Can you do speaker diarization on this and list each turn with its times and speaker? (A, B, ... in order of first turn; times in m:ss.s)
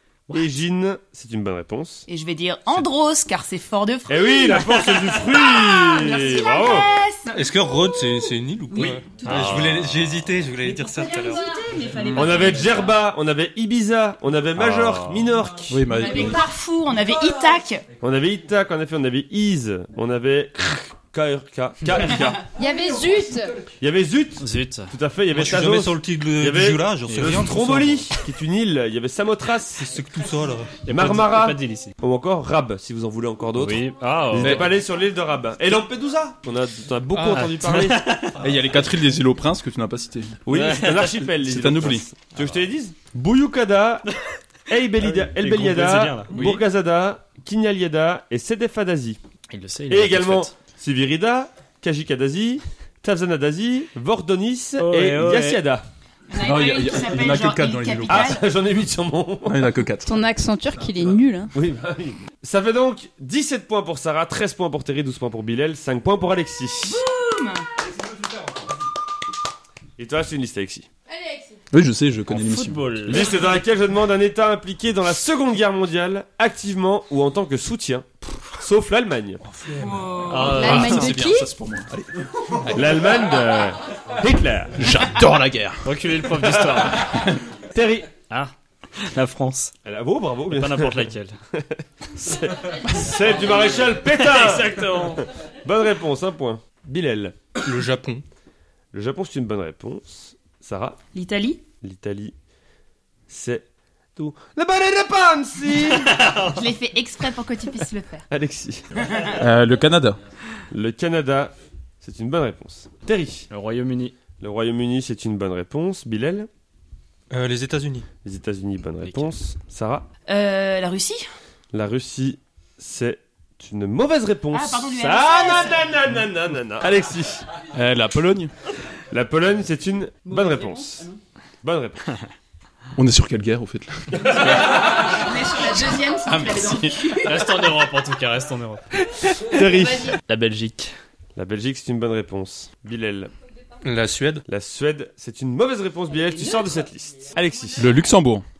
0:00.3-0:02.1 A
0:02.1-0:07.6 B
0:04.1-0:06.9 A
0:07.3-0:11.4 C
0:08.7-0:09.0 B
0:09.2-0:10.1 D
0:10.8-0:12.9 B
0:12.1-0:15.8 A
0:14.6-0:15.3 D
0:15.7-0:16.5 E
0:15.9-0:17.8 B
0:18.0-0:22.5 A
0:22.5-0:23.5 F
0:23.8-0:29.9 A
0:24.4-0:24.9 D
0:25.3-0:28.1 C
0:27.1-0:27.5 D
0:29.8-0:30.9 C
0:30.8-0:31.9 D
0:30.9-0:38.1 A
0:33.6-0:34.7 D
0:37.1-0:37.5 C
0:37.3-0:38.4 D
0:38.4-0:40.4 E
0:40.5-0:44.1 A
0:40.5-0:41.3 D
0:41.4-0:42.1 E
0:44.7-0:49.2 A
0:45.0-0:46.6 D
0:49.5-0:50.5 D
0:49.9-0:55.8 A
0:54.8-0:55.6 D
0:56.3-0:58.4 B
0:56.4-0:58.4 E
0:58.1-0:59.7 A
0:59.5-1:00.2 E
1:00.1-1:01.5 F
1:01.5-1:07.0 A
1:06.8-1:07.7 B
1:10.0-1:10.9 A
1:11.7-1:12.8 E
1:12.3-1:13.3 D
1:13.1-1:19.4 A
1:19.4-1:20.0 C
1:19.8-1:20.6 B
1:20.3-1:21.2 D
1:20.4-1:21.5 F
1:20.5-1:23.0 E
1:22.7-1:24.9 A
1:24.8-1:25.9 E
1:25.8-1:27.2 D
1:27.0-1:27.3 E
1:27.7-1:28.1 A
1:28.3-1:29.7 D
1:29.8-1:37.5 A
1:30.5-1:31.4 D
1:34.1-1:35.2 D
1:37.6-1:38.2 C
1:38.9-1:41.0 A
1:41.1-1:41.6 B
1:41.8-1:42.3 A
1:43.3-1:46.2 A
1:46.1-1:46.6 D
1:46.4-1:48.3 B
1:48.3-1:48.9 A
1:49.4-1:50.2 E
1:50.7-1:53.5 A
1:53.5-1:54.1 D
1:54.4-1:56.5 A
1:57.3-1:58.1 C
1:58.2-2:00.1 A
1:59.0-1:59.3 D
2:00.3-2:01.3 B
2:01.7-2:07.5 A
2:04.5-2:05.9 B
2:07.7-2:08.5 E
2:09.1-2:11.1 A
2:10.3-2:11.2 B
2:11.6-2:12.2 A
2:13.0-2:14.4 E
2:14.2-2:14.8 A
2:14.4-2:17.5 B
2:16.3-2:17.1 E
2:17.2-2:18.8 D
2:19.2-2:20.2 A
2:19.8-2:20.2 B
2:20.2-2:20.9 D
2:21.4-2:23.3 A
2:23.8-2:24.4 C
2:24.5-2:27.9 A
2:26.3-2:26.7 B
2:27.8-2:28.4 E